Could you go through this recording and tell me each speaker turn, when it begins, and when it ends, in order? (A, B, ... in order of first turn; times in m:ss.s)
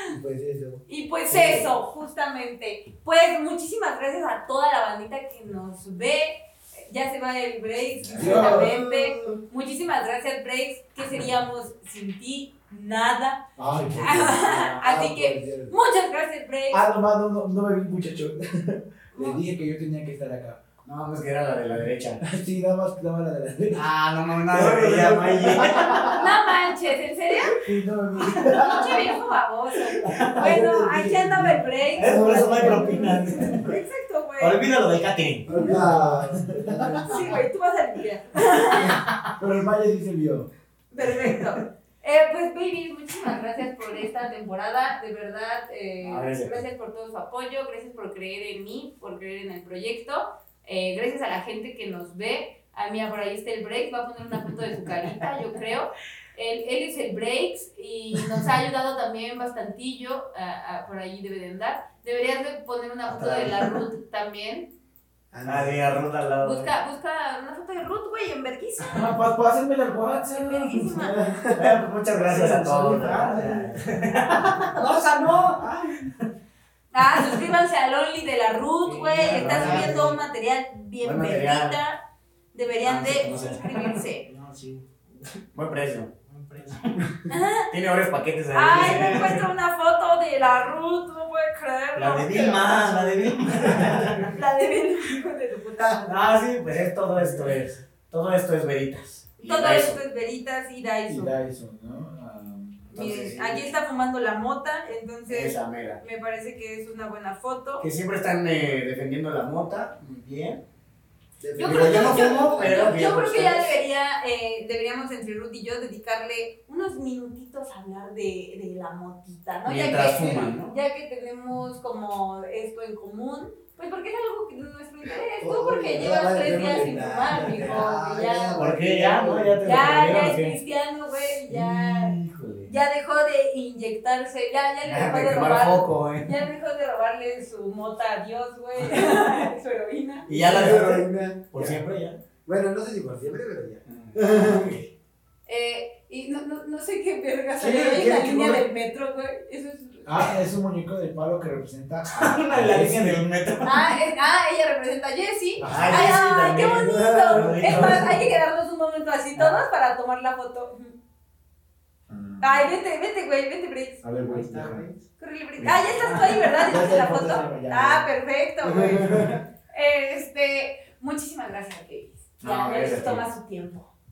0:00.1-0:00.8 A
0:00.9-0:13.4 B
0:08.1-0:09.3 C
0:13.6-0:15.7 C
0:14.0-0:16.8 B
0:16.7-0:20.6 C
0:19.1-0:19.4 B
0:20.8-0:22.2 D
0:22.2-0:23.8 C
0:23.7-0:26.2 D
0:24.5-0:26.2 C
0:26.1-0:27.7 B
0:27.4-0:29.1 C
0:28.3-0:34.6 B
0:30.0-0:33.7 C
0:30.1-0:30.5 D
0:32.0-0:33.7 D
0:34.4-0:35.9 D
0:35.5-0:37.4 C
0:35.9-0:37.3 E
0:37.1-0:39.0 B
0:39.4-0:40.5 C
0:40.9-1:04.7 B
0:41.0-0:41.5 D
0:46.0-0:46.6 D
1:03.1-1:03.8 D
1:05.3-1:05.9 C
1:05.4-1:06.7 D
1:06.4-1:09.1 B
1:08.9-1:11.8 C
1:10.1-1:11.2 B
1:11.6-1:16.1 D
1:12.2-1:13.6 E
1:12.4-1:13.0 C
1:15.4-1:16.1 E
1:16.9-1:22.0 B
1:18.8-1:20.2 D
1:19.2-1:20.2 E
1:21.0-1:21.8 D
1:22.5-1:24.3 B
1:22.8-1:24.0 D
1:24.3-1:25.4 E
1:25.5-1:26.1 D
1:26.3-1:27.0 E
1:27.3-1:27.7 B
1:27.7-1:29.4 D
1:28.5-1:32.7 B
1:32.0-1:34.3 D
1:32.3-1:33.1 E
1:33.8-1:36.4 B
1:35.8-1:40.0 D
1:39.4-1:41.3 B
1:41.1-1:42.9 C
1:42.9-1:47.9 B
1:42.9-1:43.7 D
1:45.3-1:46.0 D
1:47.8-1:50.6 D
1:51.4-1:53.2 E
1:51.6-2:08.7 B
1:51.6-1:53.7 D
1:51.8-1:52.7 C
1:59.6-2:00.7 D
2:06.0-2:07.9 C
2:07.9-2:09.5 A
2:08.6-2:10.6 D
2:09.6-2:20.3 B
2:11.5-2:12.7 D
2:14.8-2:16.4 D
2:18.9-2:19.2 D
2:20.3-2:22.2 D
2:20.6-2:21.3 A
2:22.4-2:24.4 A
2:23.9-2:24.9 D
2:25.5-2:30.4 B
2:27.6-2:28.6 C
2:30.0-2:33.3 C
2:32.1-2:33.9 D
2:33.6-2:40.9 B
2:35.6-2:36.2 C
2:35.7-2:38.2 D
2:37.3-2:38.1 C
2:42.1-2:42.7 C
2:42.4-2:44.0 B
2:44.0-2:44.8 C
2:44.2-2:45.0 E
2:45.2-2:53.9 B
2:45.6-2:46.6 D
2:46.6-2:48.1 C
2:48.6-2:49.4 C
2:52.4-2:53.3 D